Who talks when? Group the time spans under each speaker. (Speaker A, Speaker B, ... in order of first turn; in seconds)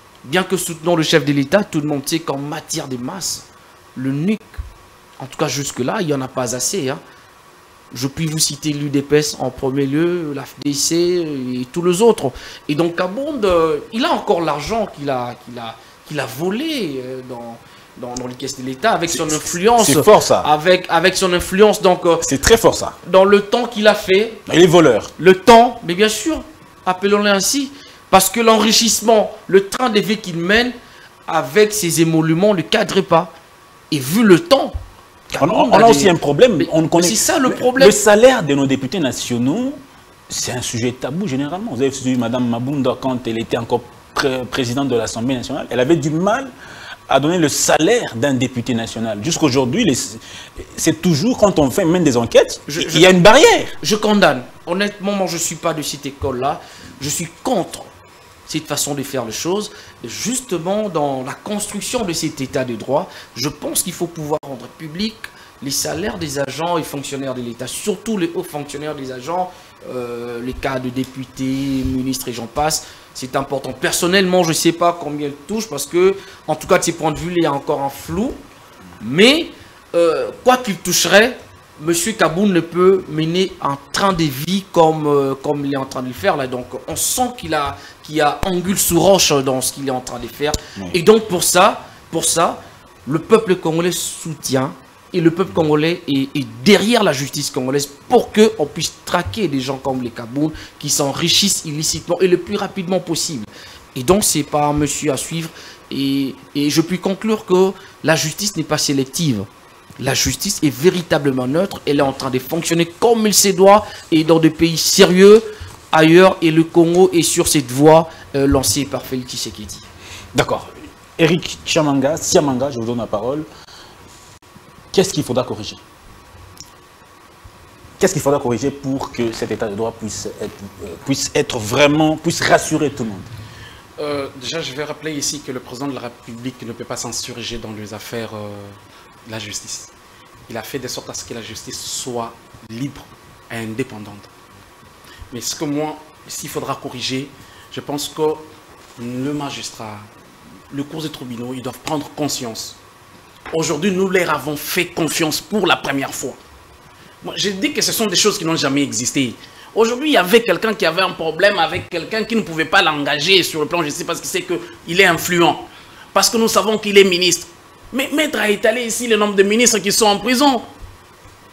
Speaker A: 0.2-4.6, 5.2-7.0, 7.9-22.2, 23.0-24.4, 25.2-30.8, 31.3-33.3, 33.9-34.8, 35.3-38.0, 52.7-53.1, 53.8-57.9, 58.5-78.4, 79.0-109.5, 110.0-119.8
Speaker B: 19.2-20.5, 22.2-23.0, 24.5-25.1, 35.4-46.5, 47.1-53.8, 120.3-123.5, 124.9-125.8, 128.0-133.3
Speaker C: 134.0-139.9, 140.5-144.3, 145.3-148.4, 149.0-150.1, 150.7-152.8, 153.5-156.4, 157.2-170.7